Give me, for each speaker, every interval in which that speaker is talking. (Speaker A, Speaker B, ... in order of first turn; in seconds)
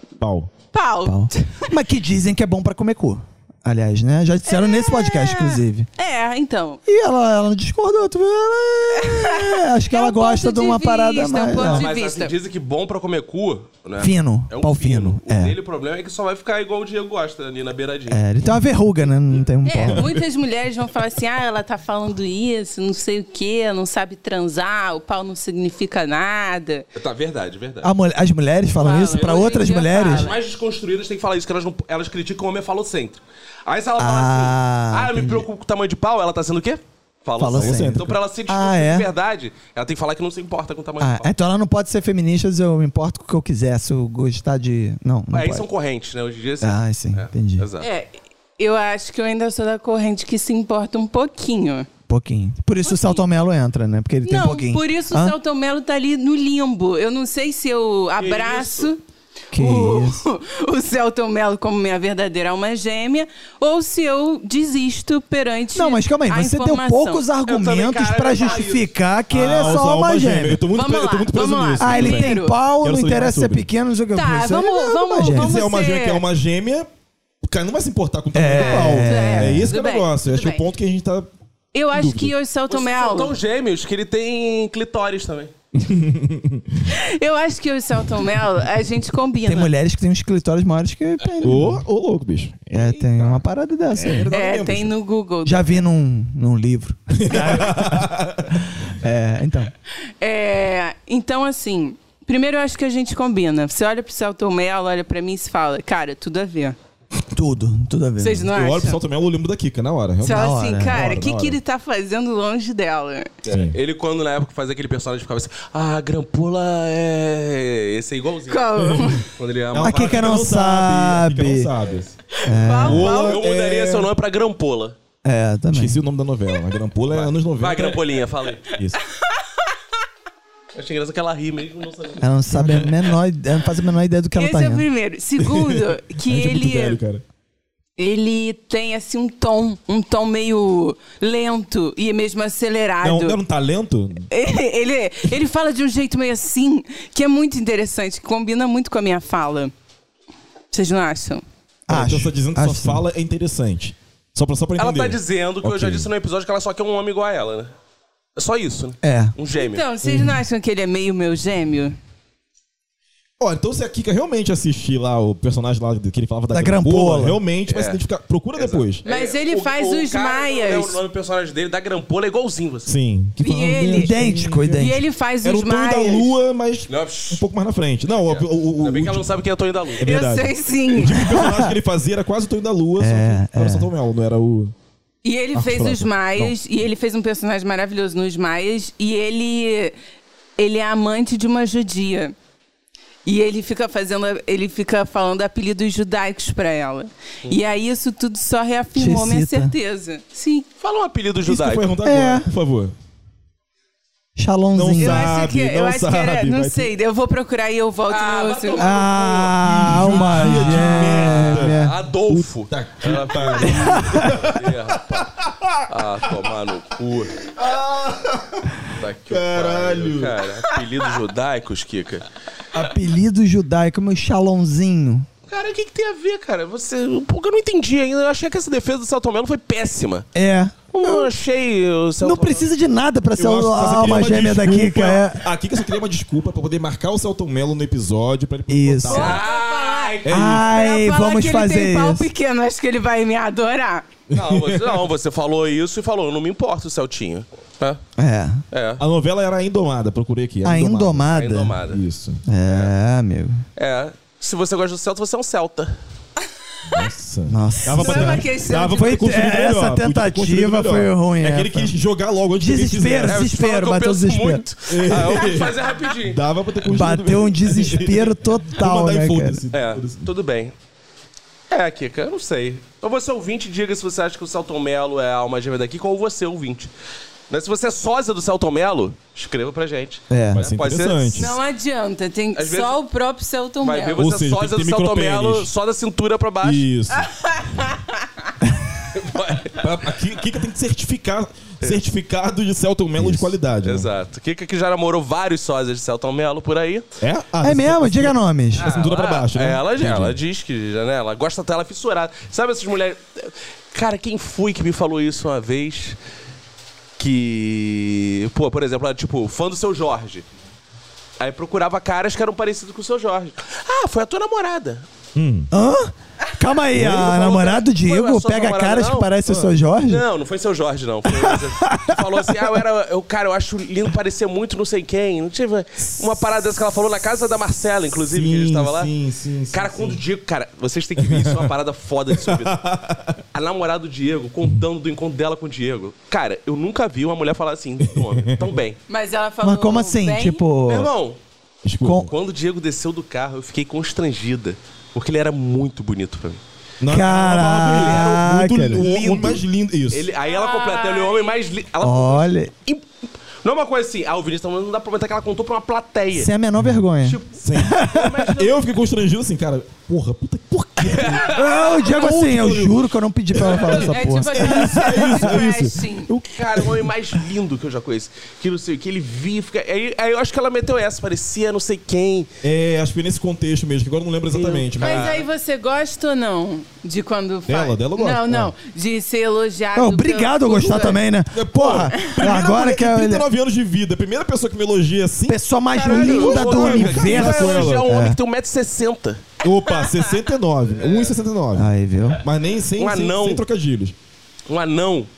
Speaker A: 0.2-0.5, 37.5-38.2, 69.3-73.7, 75.3-76.9, 77.4-81.3, 81.9-82.3, 85.7-86.8, 91.4-93.3, 93.9-94.9, 97.2-98.6, 108.5-111.6, 113.5-113.8, 118.8-119.2, 119.7-122.2, 122.8-124.1, 125.7-128.1, 132.5-133.0, 135.4-137.2, 143.0-144.3, 151.9-156.1, 160.0-160.3, 163.4-169.0, 172.8-179.3, 180.0-184.7, 185.5-186.5, 201.4-202.9, 204.7-206.9, 209.6-215.8, 217.5-220.3, 233.4-239.4, 240.2-240.7, 244.3-245.0, 249.0-251.3, 251.8-252.4, 256.9-263.4, 264.9-270.3, 280.5-281.6, 284.2-285.7, 286.6-287.3, 289.7-294.1, 297.2-300.4, 315.3-315.7, 316.9-317.4, 319.4-319.7, 328.1-330.2, 331.2-331.7, 332.3-333.4, 338.1-338.8, 341.8-342.3, 347.0-350.3, 357.6-367.1, 372.6-375.3, 377.7-378.7, 381.5-388.1, 389.6-394.1
Speaker B: 0.7-1.7, 4.5-6.8, 8.9-12.3, 19.6-26.9, 28.8-30.4, 47.8-51.9, 52.8-53.2, 54.2-59.0, 59.5-67.2, 70.7-72.6, 74.1-76.2, 78.5-80.7, 81.7-83.3, 86.8-89.7, 94.3-95.8, 100.2-106.8, 108.2-109.0, 110.2-113.3, 118.5-119.3, 122.4-123.4, 128.7-129.6, 134.3-137.0, 138.0-143.4, 144.3-149.7, 150.7-151.4, 159.5-161.9, 169.0-171.0, 173.4-174.2, 174.7-176.3, 180.0-181.4, 185.2-189.9, 190.6-192.3, 193.2-200.7, 205.0-208.9, 239.1-244.1, 257.9-259.3, 281.3-284.2, 287.2-288.0, 339.1-340.6, 350.5-351.5, 363.8-366.3, 374.6-381.2, 385.9-386.4, 389.8-390.4
Speaker C: 1.0-5.9, 6.8-11.8, 14.0-15.5, 18.1-20.1, 27.8-30.3, 34.0-35.5, 37.4-39.1, 41.0-45.7, 46.6-47.6, 52.1-55.4, 59.5-60.2, 65.7-70.6, 71.8-75.5, 78.3-79.7, 89.4-91.8, 92.7-94.3, 95.4-99.7, 107.3-108.5, 110.3-111.1, 119.8-121.7, 122.4-123.1, 125.2-126.0, 132.2-134.8, 151.9-153.0, 159.0-159.3, 166.5-167.4, 173.9-175.0, 181.2-181.7, 183.0-183.9, 198.9-199.7, 202.0-202.5, 204.4-205.4, 208.8-211.9, 213.6-214.5, 222.7-225.3, 230.3-231.3, 232.2-235.4, 238.7-239.4, 240.3-242.3, 248.2-248.6, 250.6-251.8, 252.4-253.6, 257.5-261.9, 262.6-264.6, 266.8-269.6, 280.3-280.6, 293.1-293.5, 297.6-298.9, 315.7-320.2, 321.3-322.8, 339.6-341.1, 342.0-342.3, 347.1-349.1, 352.0-352.7, 356.3-358.4, 361.5-365.6, 379.9-383.4, 385.5-388.4, 391.7-392.4
Speaker D: 11.6-18.2, 26.9-27.9, 29.1-29.4, 30.1-41.3, 45.3-47.9, 58.2-58.9, 67.5-68.9, 82.7-85.5, 113.4-118.7, 119.2-120.3, 123.1-124.9, 127.1-128.6, 130.7-132.3, 154.8-157.7, 158.3-159.8, 167.7-168.0, 168.5-172.9, 176.9-177.4, 178.2-180.2, 200.8-201.9, 208.1-215.3, 215.9-217.4, 218.9-222.2, 225.5-230.2, 230.9-232.7, 239.1-240.6, 244.3-248.0, 248.7-249.0, 251.3-252.0, 252.7-252.9, 253.8-256.0, 263.2-266.4, 269.7-270.7, 271.7-276.9, 277.5-281.5, 282.5-282.9, 283.8-286.9, 289.1-289.9, 293.8-297.1, 298.8-306.2, 307.2-310.4, 311.4-315.1, 317.0-319.3, 320.1-329.1, 329.7-332.8, 333.5-339.0, 340.9-341.4, 342.2-346.6, 347.9-348.4, 348.9-353.0, 353.6-356.5, 357.2-358.8, 361.1-361.6, 366.5-372.5, 374.5-375.4, 386.0-389.4, 391.0-391.3, 392.9-393.6, 394.7-395.3